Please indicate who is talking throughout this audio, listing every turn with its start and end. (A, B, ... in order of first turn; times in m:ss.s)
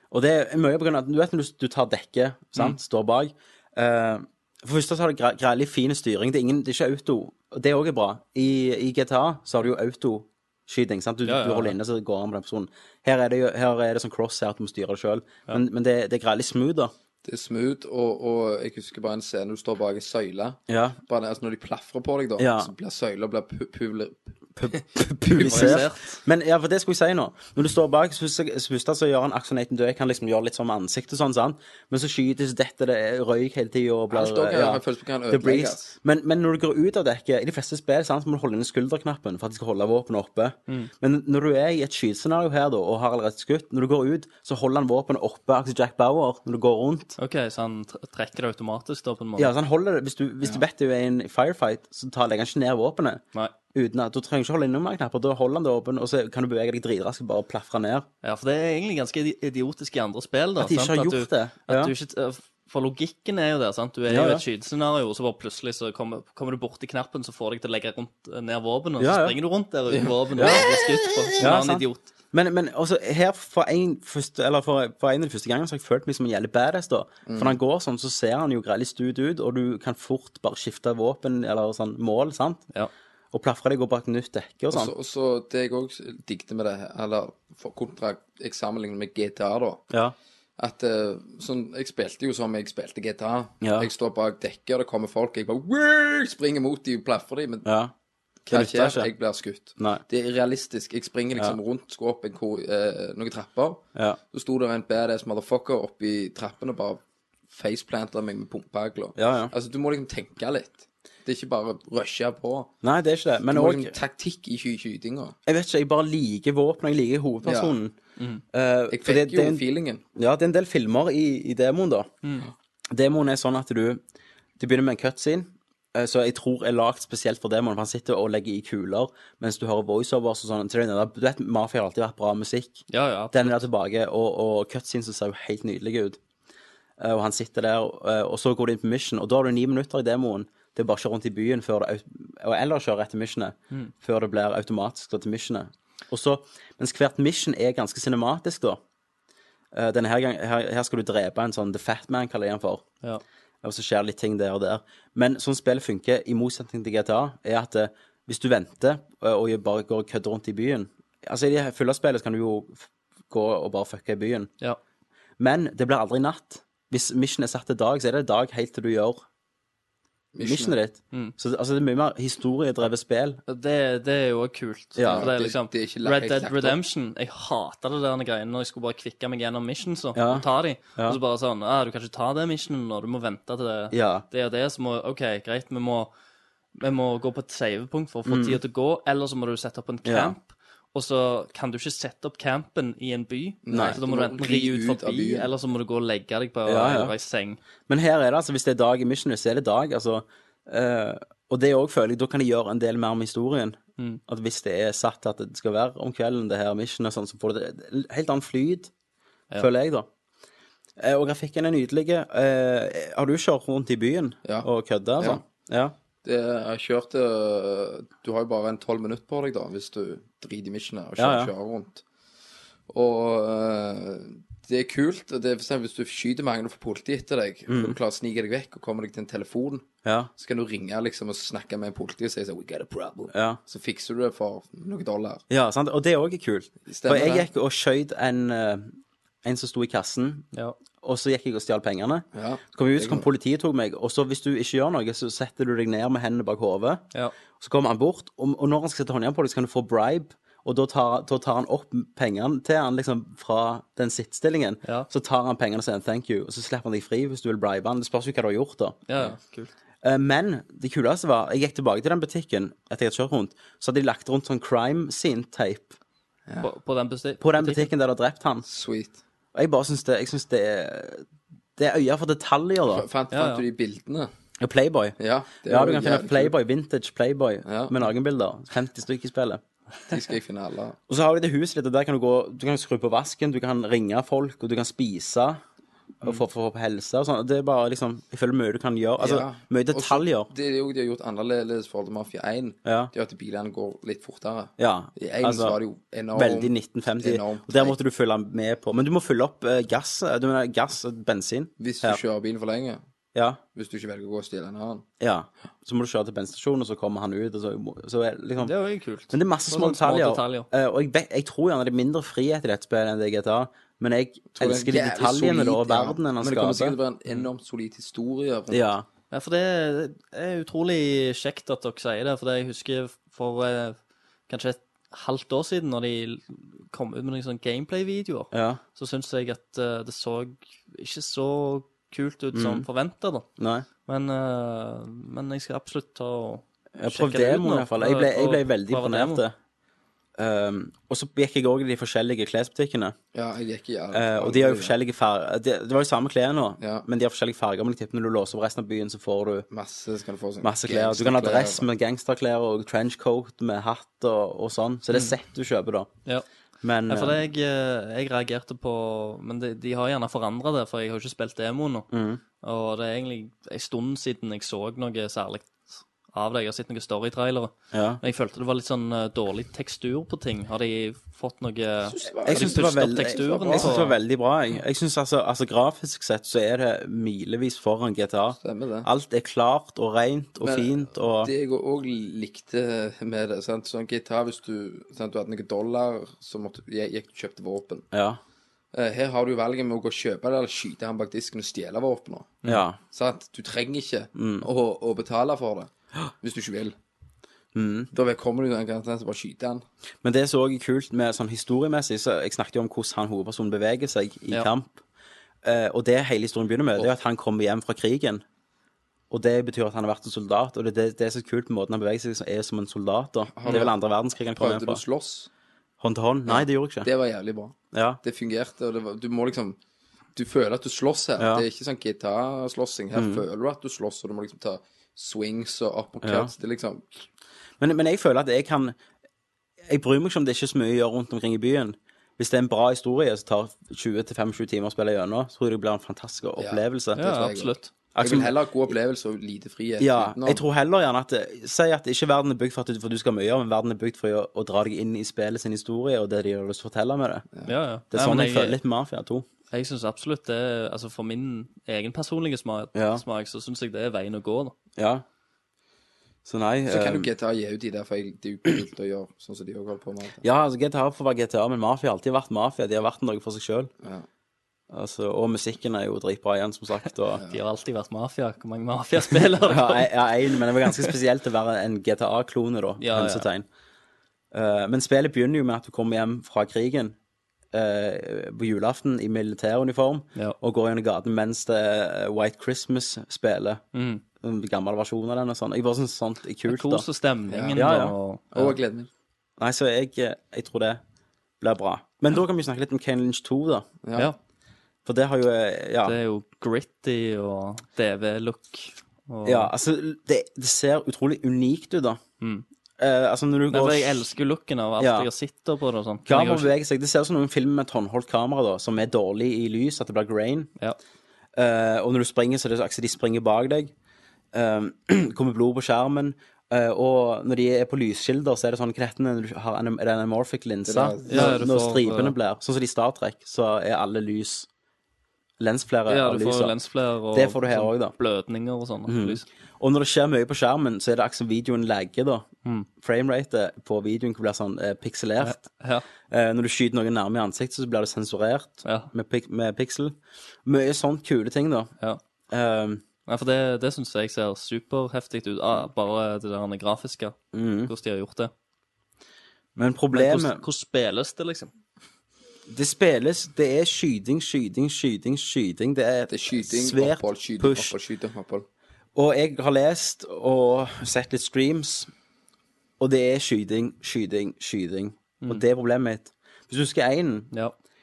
0:00.1-0:16.9 A
0:11.2-0:11.8 B
0:17.2-0:25.8 C
0:20.7-0:21.0 A
0:22.4-0:22.7 A
0:24.6-0:47.2 A
0:25.4-0:26.2 B
0:34.1-0:35.9 C
0:47.2-0:49.5 B
0:49.4-0:53.2 A
0:53.7-0:58.1 A
0:58.2-1:12.1 B
1:00.6-1:01.9 A
1:04.1-1:04.4 A
1:09.0-1:09.4 A
1:09.9-1:10.6 C
1:10.4-1:22.6 A
1:17.2-1:17.6 C
1:23.3-1:24.9 A
1:24.7-1:29.8 C
1:29.9-1:30.2 A
1:30.6-1:37.6 C
1:33.6-1:33.9 A
1:37.6-1:37.9 A
1:38.5-1:52.7 C
1:38.5-1:39.1 A
1:39.8-1:40.0 A
1:49.2-1:49.5 A
1:52.8-1:54.0 A
1:53.5-1:55.4 C
1:55.5-1:58.0 A
1:57.4-1:57.8 C
1:58.2-1:58.4 B
1:58.5-1:59.6 A
1:58.9-2:00.0 C
2:00.1-2:02.1 A
2:02.9-2:04.0 A
2:04.6-2:16.2 A
2:12.9-2:13.7 B
2:17.0-2:28.8 A
2:29.7-2:32.8 A
2:33.6-2:44.5 A
2:45.4-2:49.2 A
2:50.3-2:50.8 C
2:50.4-2:53.4 A
2:53.5-3:06.1 B
2:55.0-2:55.3 A
2:55.1-2:56.8 C
3:00.1-3:01.2 A
3:03.9-3:04.2 A
3:06.8-3:17.6 B
3:08.3-3:08.6 A
3:10.0-3:10.3 A
3:13.6-3:15.5 C
3:13.7-3:14.0 A
3:16.6-3:17.1 A
3:17.9-3:28.9 A
3:29.6-3:30.1 A
3:31.0-3:36.0 A
3:34.4-3:35.4 C
3:36.2-3:42.0 C
3:41.2-3:41.5 A
3:42.9-3:49.8 C
3:47.7-3:48.0 A
3:50.0-3:50.3 A
3:50.4-3:55.4 C
3:53.3-3:53.6 A
3:55.5-3:58.9 A
3:56.9-3:57.5 C
3:59.4-4:00.5 A
4:01.0-4:07.0 A
4:02.3-4:03.3 C
4:07.6-4:19.0 A
4:19.1-4:19.7 B
4:20.0-4:26.0 A
4:26.6-4:27.9 B
4:27.4-4:28.6 A
4:28.6-4:29.2 C
4:29.5-4:33.1 A
4:32.9-4:34.3 C
4:33.3-4:33.6 B
4:34.6-4:39.6 A
4:35.2-4:36.5 C
4:37.6-4:38.0 C
4:40.1-4:41.0 C
4:41.1-4:45.6 A
4:46.2-4:50.5 A
4:49.2-4:58.0 C
4:52.8-4:53.1 A
4:54.8-4:55.8 A
4:56.3-5:02.2 A
5:01.8-5:03.0 C
5:03.4-5:03.6 A
5:03.8-5:05.0 C
5:05.2-5:08.7 A
5:08.6-5:10.7 B
5:09.3-5:17.0 A
5:14.5-5:18.9 C
5:18.7-5:19.1 A
5:19.3-5:24.0 B
5:24.5-5:33.5 B
5:28.5-5:28.8 A
5:32.5-5:32.9 A
5:33.6-5:33.9 A
5:34.1-5:39.4 B
5:37.0-5:39.6 A
5:40.4-5:43.2 A
5:43.3-5:45.0 C
5:44.1-5:49.6 A
5:46.8-5:47.1 C
5:49.7-5:51.9 C
5:50.6-5:56.1 A
5:56.8-5:57.4 A
5:57.1-6:02.1 B
6:02.1-6:02.4 A
6:02.6-6:14.1 B
6:07.9-6:08.2 A
6:12.1-6:14.1 C
6:12.4-6:21.5 A
6:18.6-6:19.1 C
6:20.6-6:28.0 C
6:28.1-6:28.4 A
6:28.9-6:32.6 C
6:32.6-6:33.0 A
6:33.1-6:37.0 C
6:34.4-6:34.7 A
6:37.7-6:38.1 A
6:38.1-6:39.8 C
6:40.2-6:45.0 A
6:45.6-6:48.4 A
6:49.3-6:55.0 A
6:53.6-6:53.9 C
6:54.6-6:55.5 C
6:56.0-6:57.1 A
6:56.5-6:59.8 C
6:57.9-6:58.2 A
7:00.4-7:07.1 C
7:01.4-7:01.6 A
7:03.1-7:03.4 A
7:06.2-7:06.5 A
7:07.8-7:09.0 A
7:09.9-7:17.3 A
7:16.6-7:20.6 C
7:17.2-7:17.9 B
7:18.1-7:18.5 A
7:20.0-7:27.5 A
7:27.7-7:28.8 B
7:28.1-7:29.5 A
7:29.7-7:34.8 B
7:32.9-7:33.2 A
7:35.0-7:35.2 A
7:36.5-7:37.3 A
7:36.9-7:40.4 C
7:40.4-7:43.9 A
7:44.9-7:47.4 A
7:47.5-7:50.1 B
7:49.6-7:53.6 A
7:53.0-7:53.5 B
7:54.5-7:57.2 A
7:57.7-8:03.8 A
8:03.9-8:04.2 B
8:04.4-8:07.1 A
8:06.7-8:08.8 B
8:07.5-8:07.8 C
8:07.7-8:08.1 A
8:08.5-8:09.1 C
8:09.6-8:11.0 A
8:11.6-8:13.9 A
8:14.0-8:14.3 C
8:15.0-8:16.2 A
8:16.0-8:19.7 B
8:19.4-8:22.2 A
8:23.0-8:24.3 A
8:23.7-8:26.7 B
8:25.0-8:25.3 A
8:26.3-8:30.7 A
8:31.6-8:33.9 A
8:34.5-8:44.7 A
8:40.9-8:41.6 C
8:41.3-8:42.4 B
8:45.6-8:46.8 A
8:46.1-8:49.4 B
8:47.3-8:48.1 A
8:49.1-8:52.5 A
8:53.0-8:55.6 A
8:55.4-8:56.1 B
8:56.3-9:01.9 A
8:58.8-8:59.1 B
9:02.5-9:03.0 A
9:03.3-9:08.5 B
9:07.5-9:07.9 A
9:09.8-9:10.6 A
9:10.1-9:11.7 B
9:12.7-9:17.9 A
9:16.3-9:18.6 C
9:19.1-9:22.1 A
9:23.0-9:27.5 A